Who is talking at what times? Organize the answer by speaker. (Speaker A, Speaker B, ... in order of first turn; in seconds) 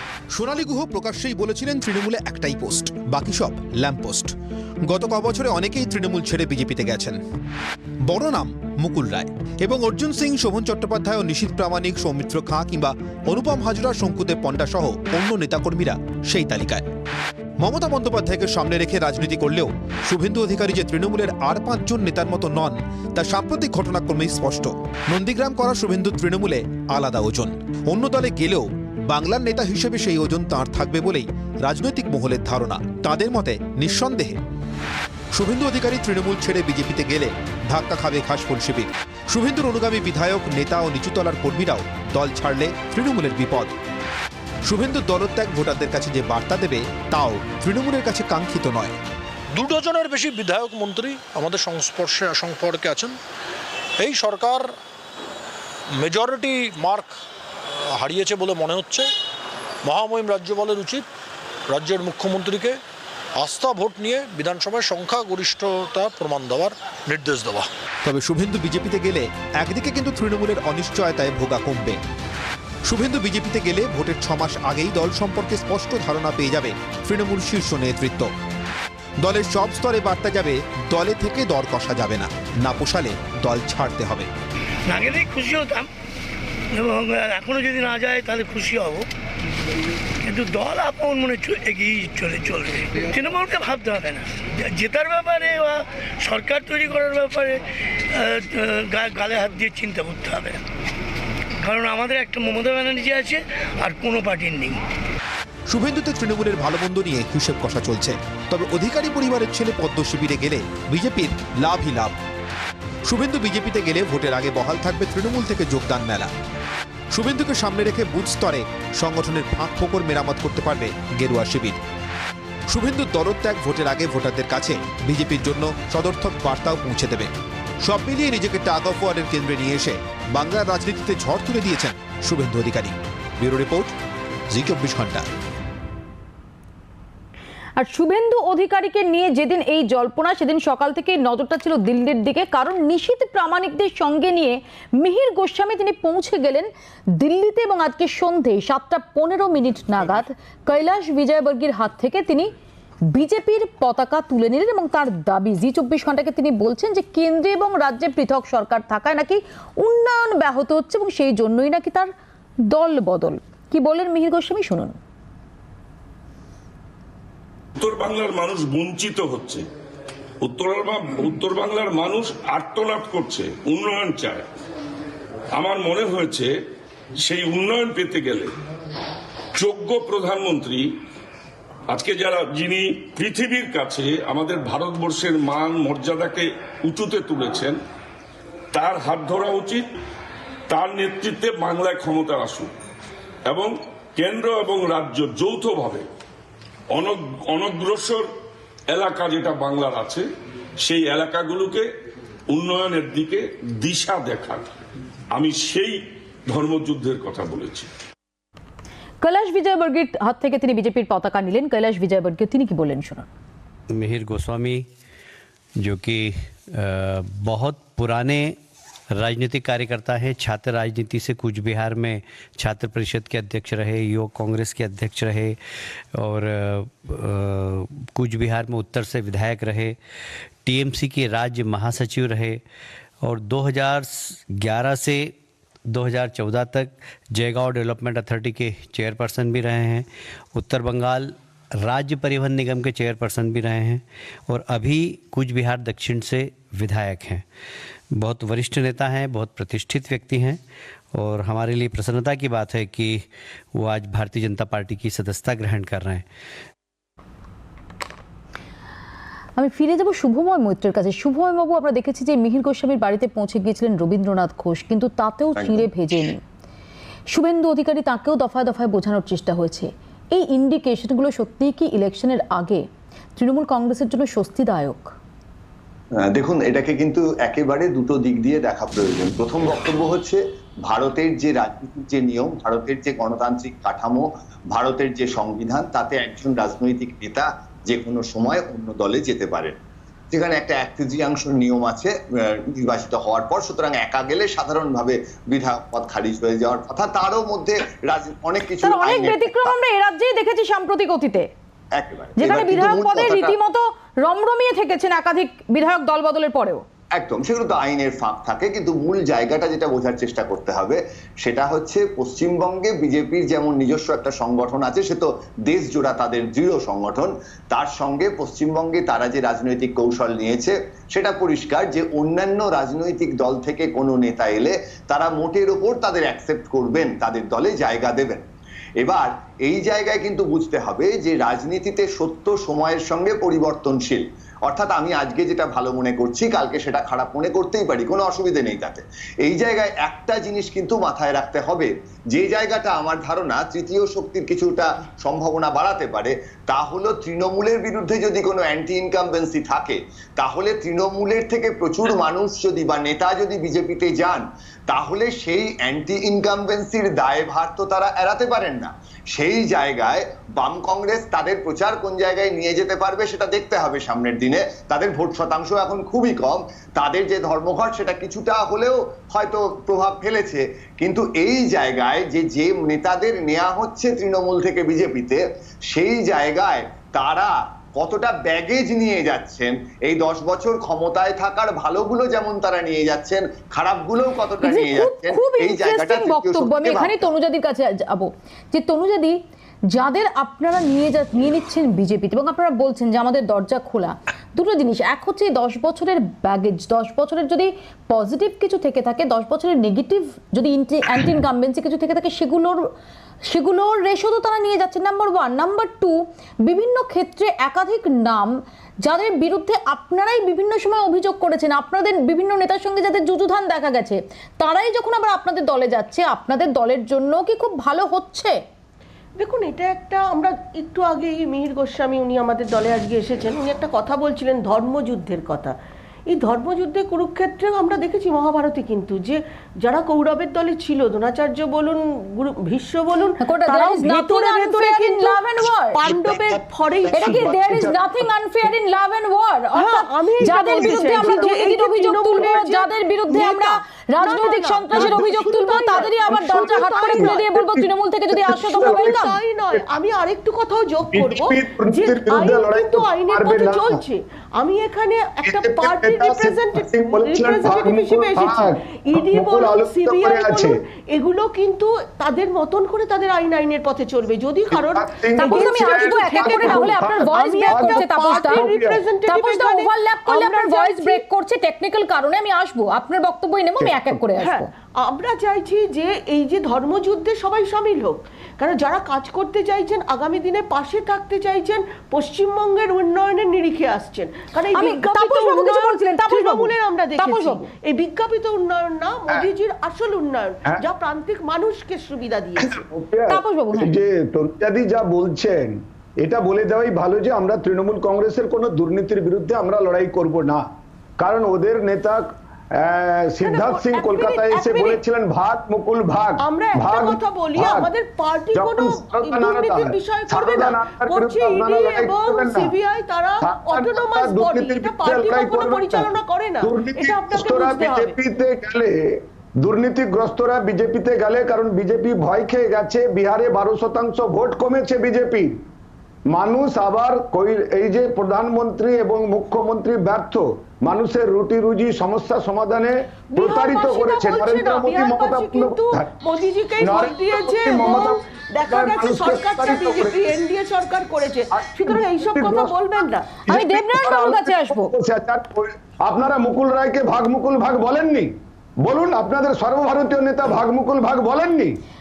Speaker A: 0.3-4.3, 4.8-7.2, 8.1-16.9, 17.6-34.4, 35.3-43.8, 44.6-49.0, 68.0-72.0, 72.9-78.3, 79.2-84.3, 105.7-112.2, 113.0-116.3, 117.1-121.8, 122.7-127.3, 127.8-134.0, 134.5-135.3
Speaker B: 49.5-53.2, 54.0-54.8, 55.9-57.2, 57.7-59.1, 59.8-61.1, 61.7-62.8, 63.4-67.7
Speaker C: 84.9-85.9, 86.7-89.1, 90.2-100.6, 101.6-104.8
Speaker D: 137.8-152.5, 153.1-162.1, 162.7-165.0, 209.2-213.3, 259.6-266.4, 267.3-272.9, 273.4-275.1, 298.8-301.5, 302.4-306.8, 384.6-389.4, 389.9-402.9, 403.5-418.6, 433.4-436.0, 437.1-449.3, 465.4-468.7, 469.3-474.7, 484.7-487.6, 493.3-494.0, 543.5-544.9
Speaker E: 167.8-169.7, 170.4-174.5, 175.6-176.5, 177.2-178.5, 179.6-180.9, 181.9-187.8, 188.7-189.8, 190.7-192.7, 193.5-196.1, 196.9-198.3, 198.9-200.3, 200.8-201.9, 202.5-204.7, 205.3-207.9
Speaker F: 213.9-214.9, 215.8-218.6, 219.2-225.6, 226.2-230.0, 230.7-232.6, 233.2-235.3, 235.9-247.4, 248.2-250.6, 251.1-253.2, 253.8-256.2
Speaker G: 265.6-265.9, 276.3-289.8, 290.3-292.1, 292.7-299.7, 302.0-303.6, 307.2-328.5, 329.0-375.4, 375.9-387.3, 436.0-436.5
Speaker H: 419.4-425.8, 426.3-437.5, 439.8-447.4, 448.6-471.2, 474.4-492.7, 503.4-505.0, 506.4-518.1, 533.3-543.3
Speaker I: 437.2-438.3, 440.8-441.4, 445.0-445.4, 446.3-449.9, 451.1-454.0, 455.4-460.7, 464.7-468.0, 468.6-469.0, 492.7-500.6, 501.2-502.3, 502.8-507.9, 508.5-512.7, 513.4-516.1, 516.6-525.5, 526.3-536.1, 536.8-540.3, 541.5-542.7, 543.5-551.8